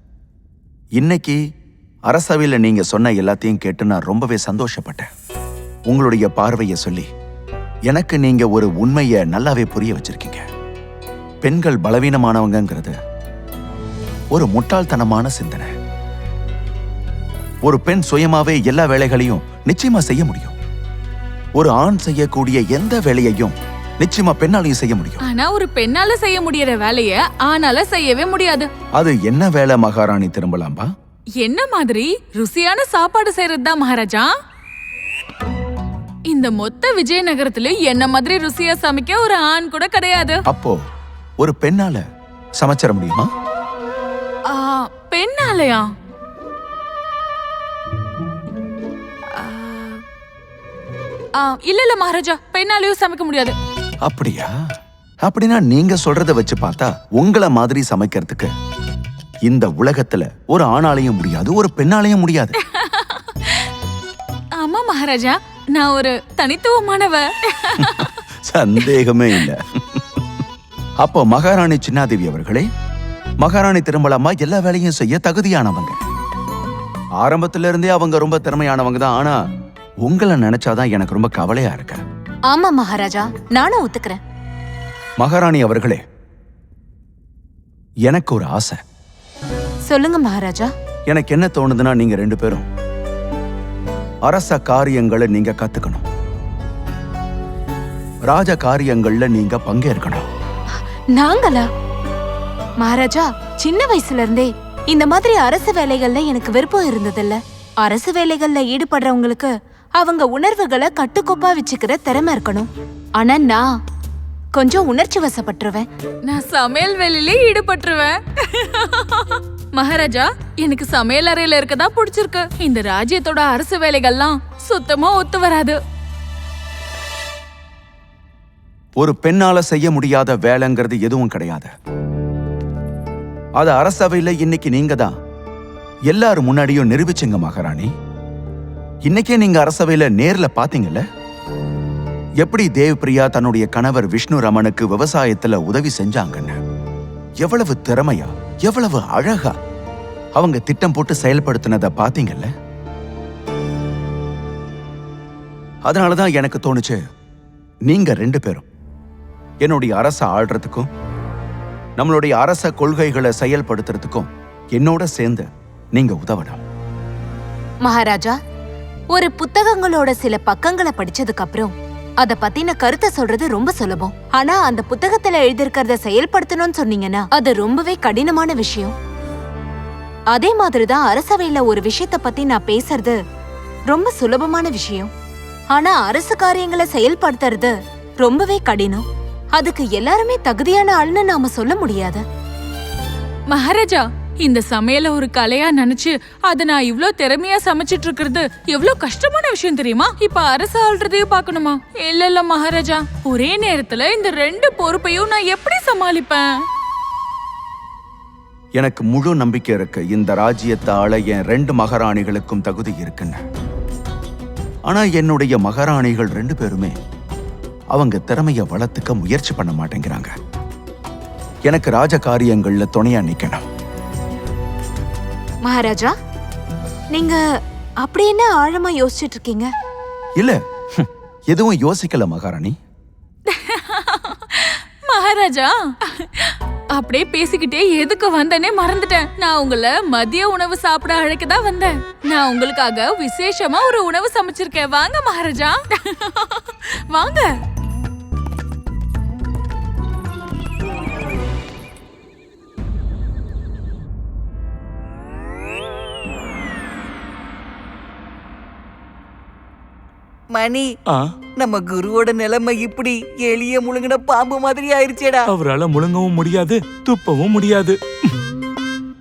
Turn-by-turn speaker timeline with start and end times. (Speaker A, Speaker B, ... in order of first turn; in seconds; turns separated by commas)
Speaker A: 1.0-1.4, Speaker A: 2.1-5.1, Speaker A: 5.9-7.1, Speaker A: 7.9-10.4, Speaker A: 11.4-12.9, Speaker A: 14.3-15.7, Speaker A: 17.6-20.6, Speaker A: 21.6-25.2, Speaker B: 25.2-28.7, Speaker A: 29.0-30.9, Speaker B: 31.4-34.3, Speaker B: 36.3-40.4, Speaker A: 40.5-40.8, Speaker A: 41.4-42.0, Speaker A: 42.6-43.3, Speaker B: 44.5-45.9, Speaker B: 49.3-50.0, Speaker B: 51.4-53.5, Speaker A: 54.0-54.5, Speaker A: 55.2-58.5, Speaker A: 59.5-62.5, Speaker B: 62.7-63.7, Speaker B: 64.6-68.2, Speaker A: 67.8-70.2, Speaker A: 71.0-72.7, Speaker A: 73.4-76.0, Speaker A: 77.2-79.4, Speaker A: 80.0-82.0, Speaker C: 82.5-84.2, Speaker A: 85.2-86.0, Speaker A: 88.1-88.8, Speaker C: 89.9-90.7, Speaker A: 91.1-92.7, Speaker A: 94.3-96.0, Speaker A: 98.3-100.2, Speaker C: 101.2-101.7, Speaker C: 102.8-113.7, Speaker C: 114.5-115.9, Speaker B: 116.3-125.8, Speaker A: 129.0-131.7, Speaker A: 133.6-135.1, Speaker A: 136.1-137.9, Speaker A: 139.1-141.0, Speaker A: 142.4-146.6, Speaker A: 147.4-149.5, Speaker A: 150.4-152.5, Speaker A: 155.9-157.0, Speaker A: 157.9-158.7, Speaker A: 159.6-160.9, Speaker A: 162.0-166.6, Speaker C: 167.8-168.3, Speaker C: 169.1-178.9, Speaker C: 180.3-183.2, Speaker C: 183.9-185.1, Speaker C: 185.7-187.7, Speaker C: 188.2-189.0, Speaker C: 189.6-192.2, Speaker B: 193.5-206.5, Speaker A: 208.8-213.4, Speaker A: 214.9-216.9, Speaker A: 217.9-220.3, Speaker A: 221.7-223.6, Speaker C: 225.7-226.1, Speaker C: 227.1-227.4, Speaker C: 228.0-229.7, Speaker A: 230.4-232.8, Speaker B: 233.5-247.5, Speaker D: 260.5-260.9, Speaker D: 261.6-265.4, Speaker E: 265.4-268.0